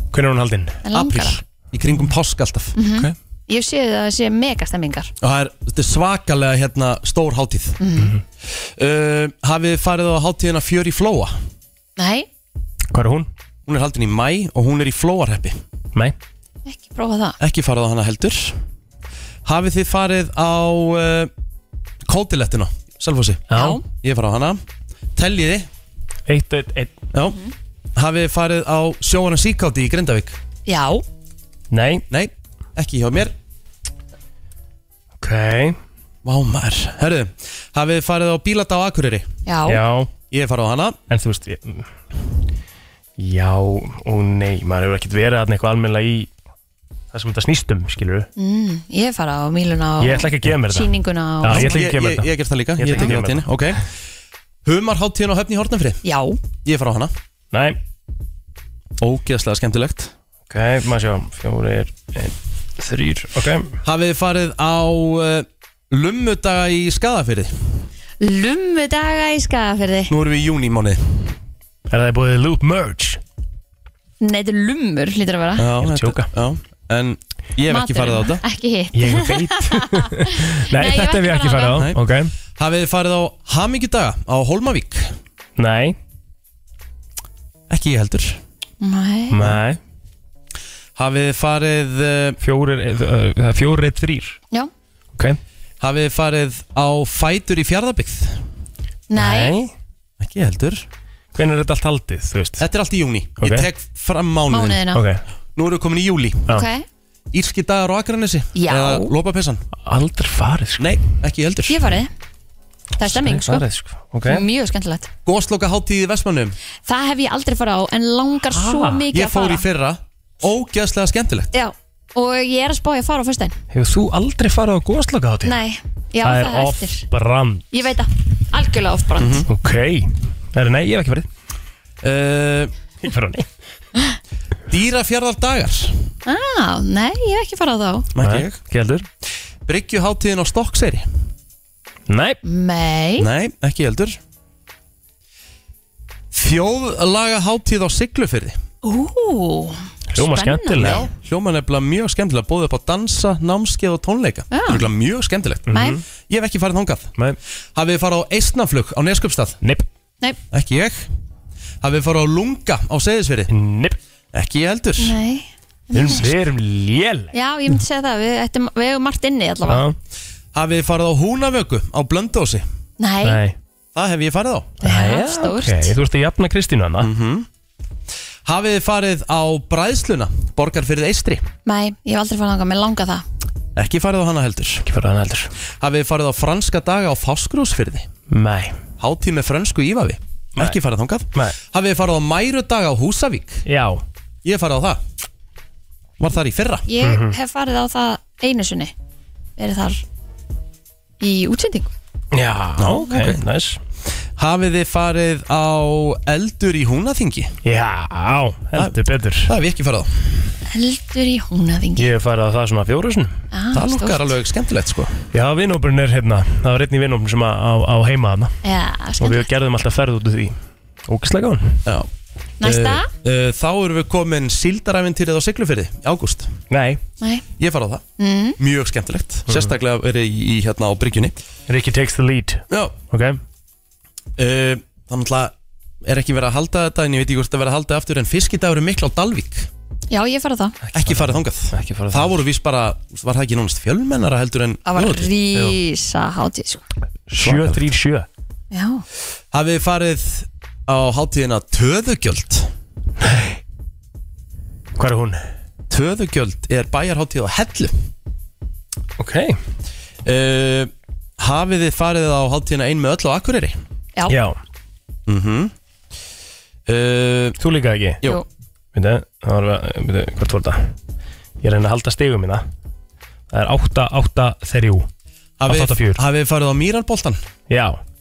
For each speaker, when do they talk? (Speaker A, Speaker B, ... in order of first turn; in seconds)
Speaker A: 0.1-0.8, 8.0-8.2, 12.9-13.3, 23.5-23.8, 26.3-26.9, 31.7-32.0, 35.2-35.8, 39.7-40.1, 41.1-41.9, 43.2-46.3, 47.1-48.3, 50.0-53.5, 57.5-57.8, 60.5-63.8, 71.9-73.2, 75.8-76.3, 78.9-82.3, 85.6-86.0, 89.3-89.8, 92.4-94.4, 99.1-99.7, 101.3-102.6, 103.4-103.7, 104.9-105.2, 109.8-110.9, 113.0-114.4, 118.5-119.0, 123.7-125.6, 126.2-127.7, 129.5-131.3, 133.0-133.5, 138.2-139.1, 142.1-142.4, 150.1-151.0, 155.7-156.0, 163.5-164.0, 165.9-167.3, 169.7-170.0, 173.2-173.6, 174.8-177.1, 184.9-185.5, 188.3-188.8, 193.7-194.0, 197.0-197.3, 202.3-203.8, 207.7-209.5, 212.0-213.3, 215.3-218.6, 219.2-220.6, 221.1-221.8, 226.7-227.0, 229.5-229.8, 231.7-233.4, 240.9-242.4, 247.3-248.3, 253.2-253.6, 255.0-255.4, 259.2-259.6, 264.3-264.6, 267.6-268.2, 268.9-270.9, 271.6-272.6, 273.5-275.1, 275.7-276.2, 277.7-278.0
Speaker B: 0.8-1.4, 2.8-5.1, 7.8-8.1, 12.0-12.3, 16.7-17.4, 23.5-23.8, 30.7-31.0, 39.5-39.8, 48.4-51.8, 56.0-56.4, 68.2-70.1, 74.2-75.7, 77.7-81.8, 88.8-89.4, 99.1-99.5, 104.5-105.0, 106.5-106.8, 108.5-109.1, 111.7-112.1, 113.0-113.7, 114.3-115.1, 116.9-119.7, 121.5-123.6, 125.5-127.0, 127.7-129.5, 136.3-138.1, 142.4-143.3, 148.8-151.1, 154.5-154.9, 155.7-156.0, 165.0-166.3, 167.3-169.8, 173.0-173.4, 174.8-175.9, 181.7-183.2, 196.9-198.9, 199.6-200.0, 201.2-201.9, 210.7-212.1, 213.5-214.3, 218.6-219.5, 222.6-223.1, 228.2-228.6, 240.1-240.8, 244.9-246.8, 248.7-249.1
Speaker C: 0.9-2.7, 5.2-7.8, 8.8-11.3, 13.7-15.6, 17.4-18.6, 19.4-21.3, 22.1-24.6, 25.1-25.7, 27.1-27.4, 28.0-30.4, 32.1-33.3, 36.2-39.3, 40.3-41.0, 51.5-53.8, 54.6-56.0, 56.6-57.1, 59.0-60.1, 63.8-67.5, 70.1-71.3, 75.6-78.4, 82.6-85.1, 87.7-88.4, 91.0-92.4, 95.8-98.4, 100.2-100.9, 102.6-104.9, 105.6-106.5, 107.3-109.6, 110.8-111.9, 115.3-116.5, 119.1-121.5, 129.2-129.5, 132.0-132.7, 134.7-136.1, 138.1-138.6, 139.7-141.1, 143.2-144.2, 146.3-148.6, 150.8-155.7, 156.2-157.1, 157.8-159.6, 160.5-161.1, 161.8-163.5, 164.3-165.2, 170.5-172.7, 173.9-174.7, 177.0-177.5, 178.5-181.4, 183.8-184.9, 185.8-188.1, 189.0-193.6, 194.4-195.0, 196.2-196.9, 202.8-203.4, 204.4-207.6, 209.5-210.5, 213.7-215.2, 221.8-222.1, 222.6-226.6, 227.6-228.0, 228.6-231.4, 232.7-233.0, 234.4-235.5, 236.1-239.7, 240.9-245.3, 247.4-247.8, 249.5-252.7, 255.9-258.1, 260.2-263.8, 265.3-265.7, 266.9-267.6, 275.6-277.4